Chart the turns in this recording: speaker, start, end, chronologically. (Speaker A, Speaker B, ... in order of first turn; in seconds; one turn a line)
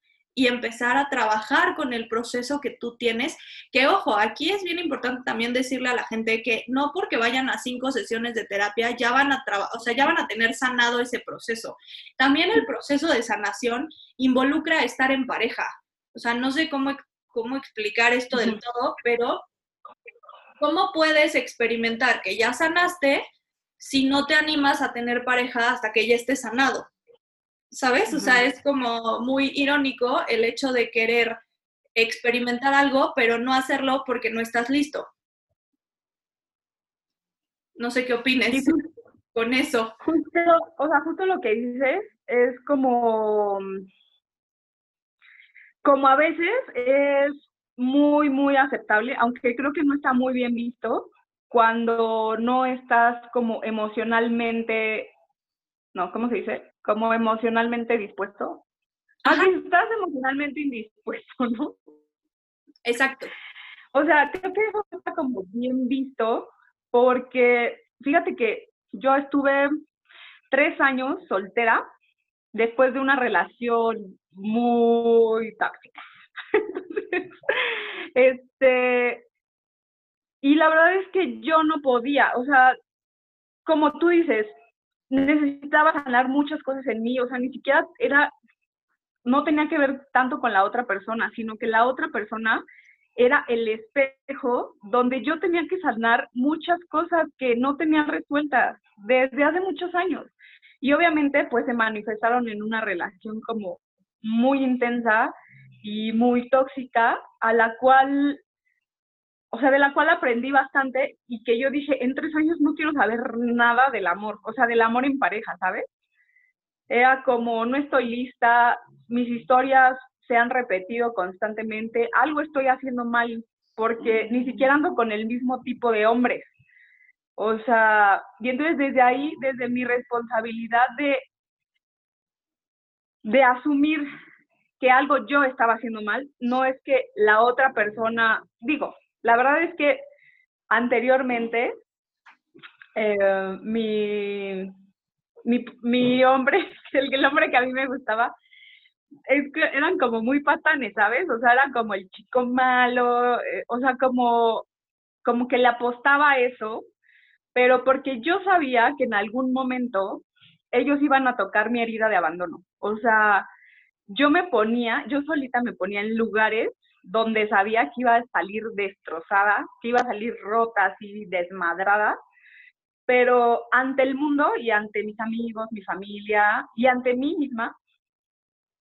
Speaker A: 0.3-19.4
Speaker B: 18.3-18.6
Speaker A: 20.6-23.2
Speaker A: 23.8-26.9
Speaker A: 27.7-31.4
Speaker B: 28.1-28.4
Speaker A: 31.9-35.1
Speaker A: 37.8-38.8
Speaker B: 38.5-38.8
Speaker A: 39.3-39.9
Speaker B: 40.0-43.9
Speaker B: 45.8-55.1
Speaker B: 55.9-58.6
Speaker A: 59.2-59.5
Speaker B: 59.2-61.8
Speaker A: 62.8-63.3
Speaker B: 63.9-69.7
Speaker B: 70.5-71.8
Speaker B: 72.5-76.0
Speaker B: 76.5-79.2
Speaker B: 80.4-82.8
Speaker B: 83.7-84.5
Speaker B: 85.1-88.3
Speaker B: 89.2-92.6
Speaker B: 93.2-108.4
Speaker B: 109.5-115.8
Speaker B: 116.9-126.5
Speaker B: 127.4-131.2
Speaker B: 133.2-134.1
Speaker B: 134.8-140.0
Speaker B: 140.7-141.7
Speaker B: 142.9-144.7
Speaker B: 145.4-148.3
Speaker B: 149.3-154.7
Speaker B: 155.2-156.9
Speaker B: 157.5-163.5
Speaker B: 164.1-172.2
Speaker B: 173.1-177.8